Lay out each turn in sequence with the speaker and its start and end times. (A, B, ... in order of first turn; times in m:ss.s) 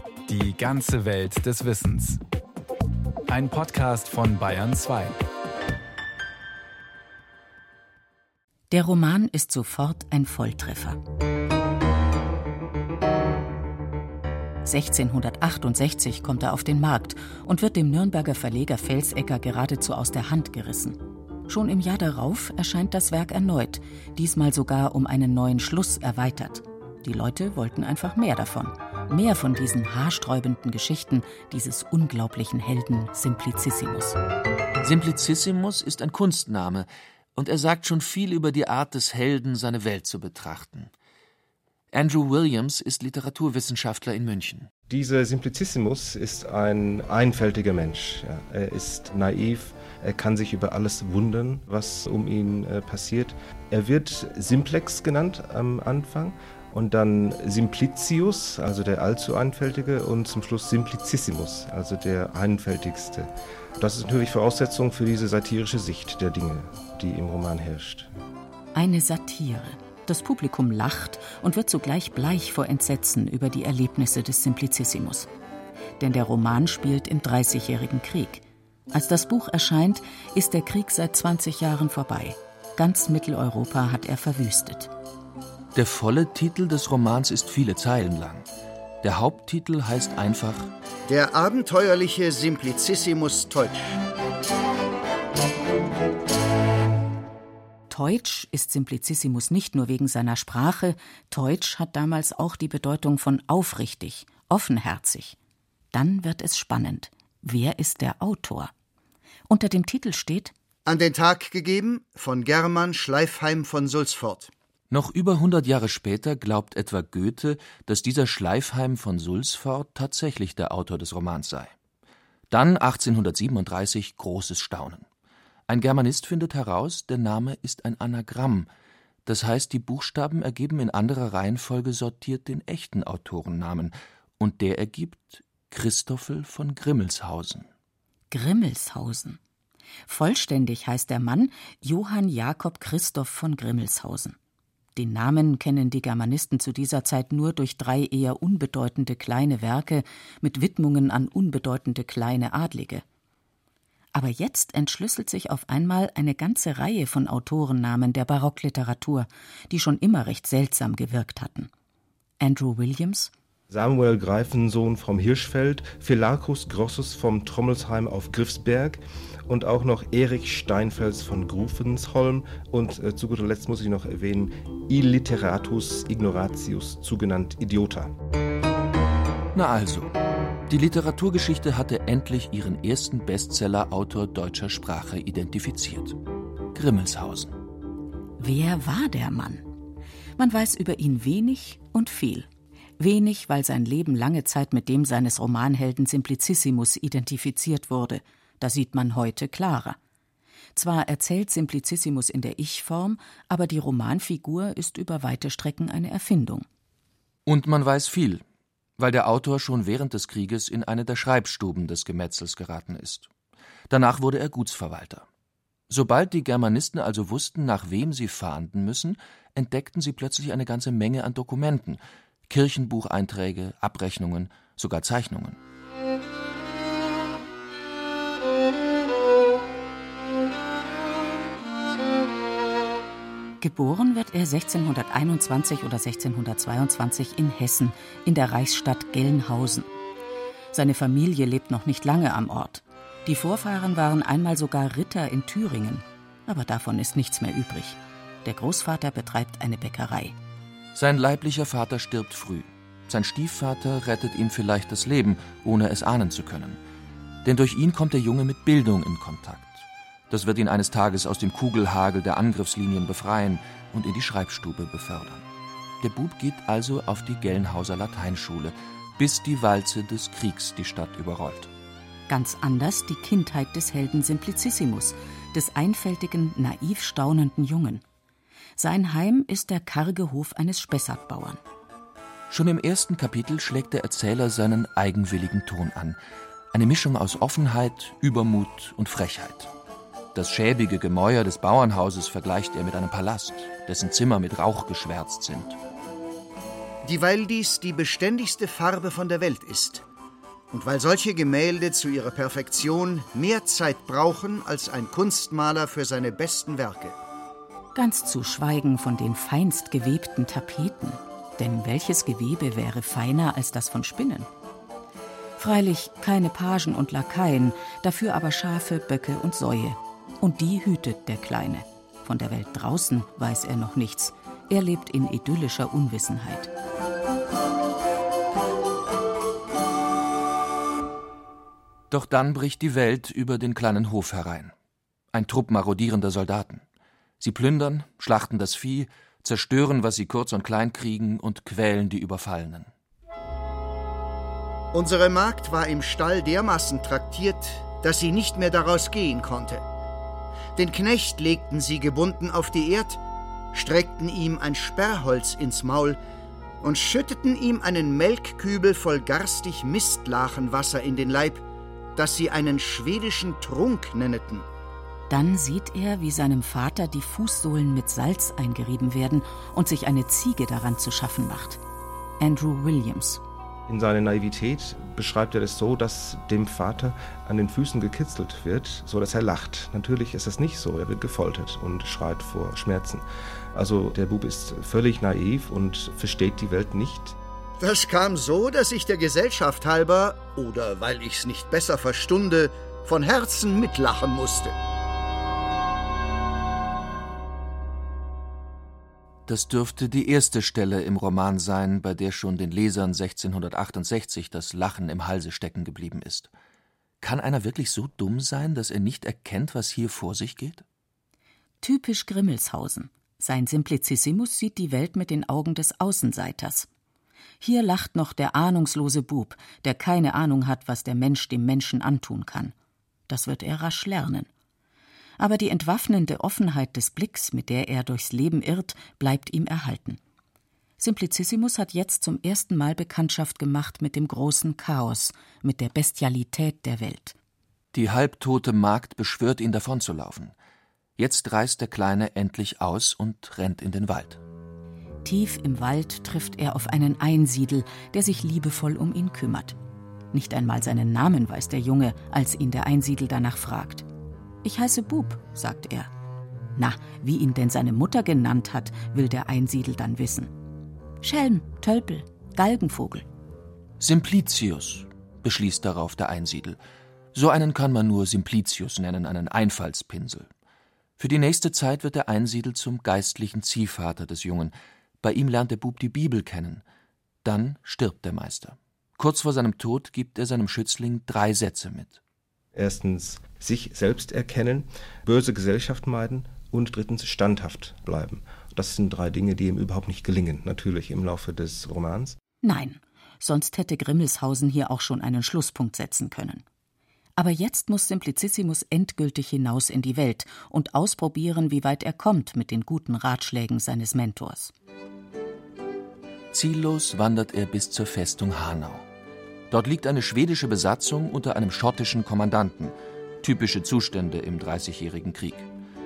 0:00.3-0:02.2 A
0:03.3-0:05.2 A
0:08.7-0:11.0 B
0:14.6-0:34.2 B
0:34.8-0:40.9 C
0:41.9-0:44.7 C
0:44.9-1:08.1 D
1:08.8-1:15.3 B
1:16.0-1:24.9 B
1:25.8-1:28.4 C
1:29.0-1:30.7 C
1:31.1-1:34.0 E
1:37.9-1:45.4 B
1:45.9-1:48.7 B
1:49.5-1:50.5 B
1:50.9-1:54.5 E
1:54.9-2:01.7 C
2:02.5-2:05.1 C
2:05.7-2:08.7 C
2:09.3-2:17.7 C
2:18.3-2:19.4 B
2:20.1-2:24.4 B
2:25.0-2:33.0 B
2:34.1-2:41.7 B
2:42.4-2:43.3 B
2:43.7-2:58.1 D
2:59.6-3:00.1 C
3:00.7-3:06.2 C
3:06.8-3:07.5 C
3:08.4-3:09.7 B
3:10.4-3:12.5 B
3:13.0-3:20.0 B
3:20.8-3:26.7 B
3:27.5-3:28.4 C
3:29.0-3:33.3 C
3:33.9-3:35.3 C
3:35.9-3:45.6 C
3:53.6-3:59.9 B
4:00.7-4:10.4 B
4:11.0-4:16.8 C
4:17.4-4:25.4 C
4:26.0-4:31.7 C
4:32.3-4:38.0 B
4:38.8-4:41.6 B
4:42.5-4:46.2 C
4:46.7-4:49.7 C
4:50.4-4:55.8 C
4:57.0-5:00.0 E
5:00.7-5:07.2 E
5:08.0-5:14.5 B
5:15.6-5:26.7 B
5:32.1-5:34.7 C
5:35.3-5:36.8 C
5:37.4-5:42.9 C
5:44.9-5:49.8 E
5:50.8-5:53.2 E
5:53.7-5:56.2 E
5:56.8-6:01.6 E
6:02.2-6:04.7 E
6:05.3-6:11.8 B
6:12.4-6:13.4 B
6:13.9-6:27.4 D
6:27.8-6:34.8 E
6:39.5-6:46.5 C
6:47.2-6:50.8 C
6:51.8-6:56.9 B
6:57.6-7:02.7 B
7:03.3-7:04.5 B
7:05.4-7:10.2 B
7:11.0-7:17.4 B
7:17.9-7:20.5 C
7:21.2-7:24.4 C
7:25.2-7:29.8 B
7:30.3-7:34.1 B
7:34.6-7:36.1 B
7:36.8-7:40.5 B
7:41.2-7:43.3 B
7:44.0-7:46.8 C
7:47.3-7:50.5 C
7:51.2-7:56.8 C
7:57.4-8:02.2 C
8:02.8-8:12.4 D
8:12.6-8:16.6 B
8:17.4-8:24.7 B
8:26.5-8:29.0 C
8:29.7-8:35.7 C